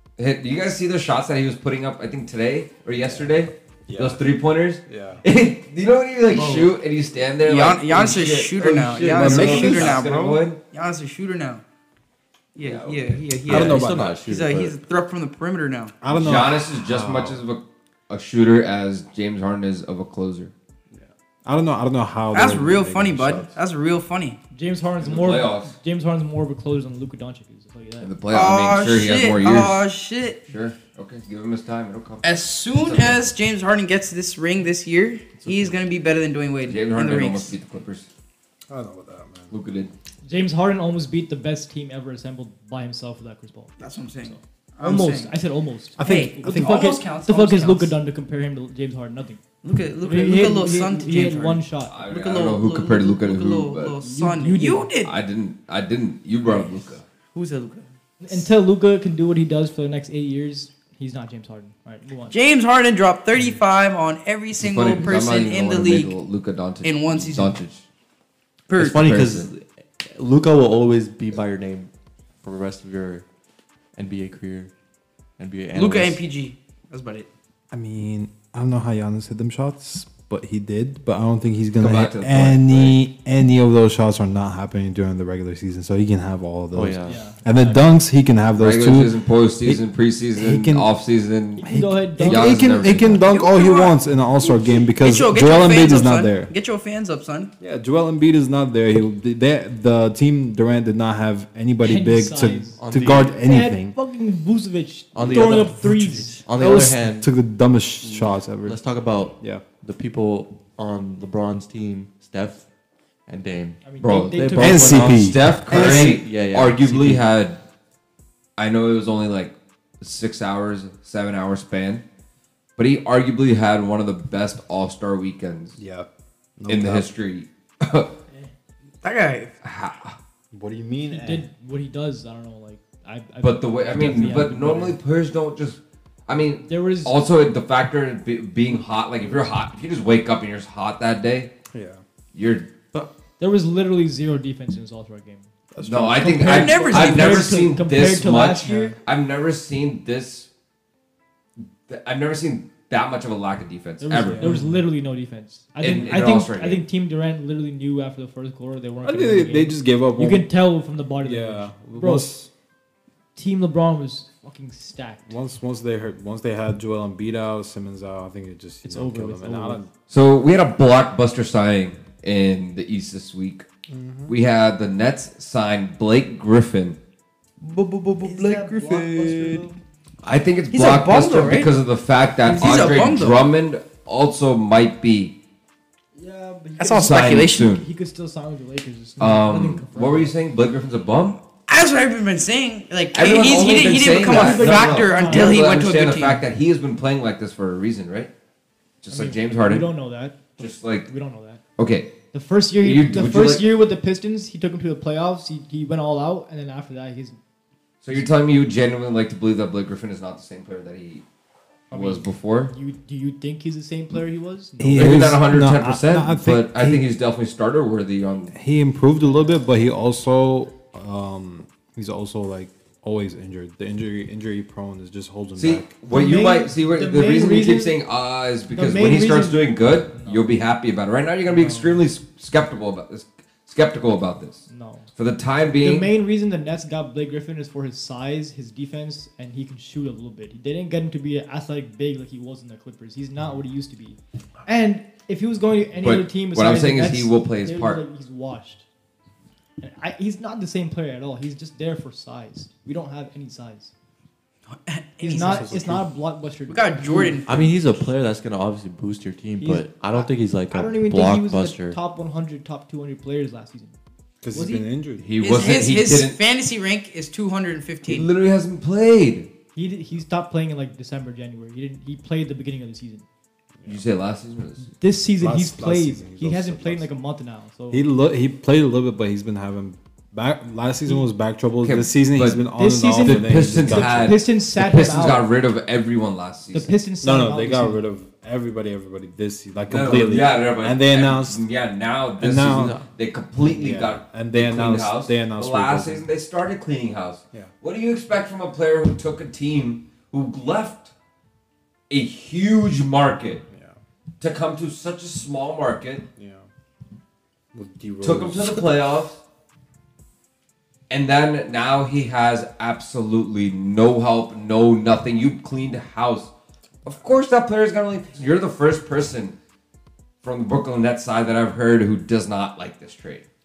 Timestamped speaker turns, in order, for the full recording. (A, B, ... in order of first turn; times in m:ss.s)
0:00.2-0:10.6 A
0:03.0-0:03.3 B
0:03.9-0:04.2 B
0:04.9-0:05.2 B
0:06.3-0:06.7 C
0:07.5-0:11.6 C
0:09.2-0:10.0 B
0:12.6-0:16.0 C
0:12.6-0:13.2 A
0:13.4-0:14.8 D
0:13.5-0:14.2 B
0:16.0-0:17.4 B
0:16.1-0:20.5 A
0:20.9-0:23.5 B
0:22.3-0:24.4 C
0:24.5-0:28.1 E
0:25.0-0:25.7 A
0:28.0-0:29.8 A
0:28.3-0:30.4 C
0:30.5-0:33.2 A
0:32.2-0:37.6 C
0:36.7-0:38.1 A
0:38.7-0:39.6 B
0:39.5-0:39.9 A
0:40.2-0:49.4 E
0:43.8-0:45.3 C
0:46.0-0:46.8 B
0:46.0-0:48.0 C
0:49.6-0:55.1 C
0:50.0-0:52.0 E
0:51.9-0:54.0 A
0:54.0-0:54.9 E
0:55.0-0:57.0 A
0:56.5-0:58.4 C
0:58.2-1:02.3 E
1:02.3-1:06.2 C
1:04.6-1:07.8 A
1:06.8-1:07.6 C
1:08.7-1:09.0 C
1:08.8-1:11.9 D
1:08.8-1:09.5 A
1:12.4-1:13.2 D
1:14.0-1:14.7 D
1:15.4-1:16.2 D
1:15.7-1:17.3 C
1:17.7-1:29.1 B
1:21.8-1:23.0 A
1:26.7-1:27.7 D
1:27.1-1:27.4 E
1:28.6-1:33.3 A
1:30.3-1:30.9 B
1:31.6-1:32.7 E
1:31.6-1:36.5 B
1:33.2-1:37.5 C
1:37.6-1:44.0 B
1:41.8-1:46.4 E
1:42.8-1:43.4 D
1:45.1-1:47.3 D
1:45.2-1:48.8 B
1:48.0-1:52.7 D
1:53.3-1:57.2 D
1:53.8-1:55.1 E
1:54.0-1:57.6 A
1:54.6-1:56.2 B
1:58.6-2:02.0 A
2:02.8-2:05.8 A
2:05.8-2:07.1 B
2:06.7-2:08.1 A
2:09.0-2:09.5 C
2:09.6-2:10.2 A
2:10.5-2:11.5 B
2:11.1-2:14.9 E
2:13.4-2:21.5 A
2:14.0-2:15.0 B
2:16.6-2:17.2 E
2:21.7-2:22.0 B
2:22.3-2:22.7 A
2:23.4-2:25.5 E
2:25.7-2:26.9 B
2:25.8-2:30.5 A
2:26.2-2:29.0 E
2:26.4-2:27.5 C
2:28.6-2:29.0 B
2:31.9-2:34.5 A
2:34.0-2:42.3 E
2:34.3-2:34.8 B
2:35.8-2:36.8 A
2:39.0-2:40.5 B
2:41.2-2:42.5 B
2:43.4-2:45.3 E
2:45.3-2:49.9 B
2:48.8-2:49.8 E
2:50.1-2:53.7 A
2:53.9-2:54.3 B
2:54.3-2:57.0 A
2:57.6-2:59.7 C
2:58.2-2:59.8 E
3:00.2-3:05.3 A
3:00.7-3:01.7 C
3:02.4-3:03.5 C
3:06.2-3:10.3 E
3:06.8-3:07.7 C
3:06.9-3:07.8 A
3:09.2-3:11.4 A
3:11.7-3:16.4 C
3:13.1-3:18.3 A
3:14.2-3:15.6 E
3:19.0-3:19.9 A
3:19.1-3:21.6 E
3:20.6-3:21.1 A
3:21.8-3:22.1 A
3:22.3-3:27.4 E
3:22.8-3:23.7 A
3:28.0-3:31.2 A
3:31.9-3:32.7 A
3:31.9-3:35.4 E
3:34.8-3:37.0 B
3:35.0-3:38.5 A
3:38.5-3:45.9 B
3:39.2-3:39.5 E
3:45.6-3:56.1 A
3:46.1-3:48.0 E
3:48.7-3:50.5 E
3:51.5-3:52.0 E
3:54.7-3:55.1 E
3:55.8-4:08.8 E
4:06.0-4:08.0 A
4:09.8-4:13.9 E
4:14.7-4:15.7 C
4:15.2-4:17.4 E
4:15.4-4:16.0 B
4:16.7-4:17.9 C
4:17.5-4:22.0 D
4:19.6-4:24.0 E
4:24.4-4:25.2 B
4:24.5-4:24.9 E
4:25.2-4:26.4 A
4:25.4-4:28.3 C
4:28.1-4:29.5 A
4:29.8-4:33.2 E
4:33.9-4:34.9 A
4:34.8-4:38.1 E
4:35.4-4:37.1 B
4:37.9-4:44.4 B
4:41.8-4:42.6 A
4:42.8-4:45.5 E
4:43.2-4:46.9 A
4:46.7-4:48.0 E
4:47.2-4:51.6 B
4:49.9-5:01.1 A
4:52.4-4:53.0 B
4:52.8-4:53.0 D
4:53.6-4:56.3 B
5:02.1-5:03.6 A
5:03.7-5:04.0 B
5:04.4-5:06.3 A
5:06.4-5:06.6 B
5:07.7-5:09.0 B
5:08.2-5:09.4 A
5:11.1-5:16.5 A
5:17.0-5:19.6 A
5:20.4-5:23.4 A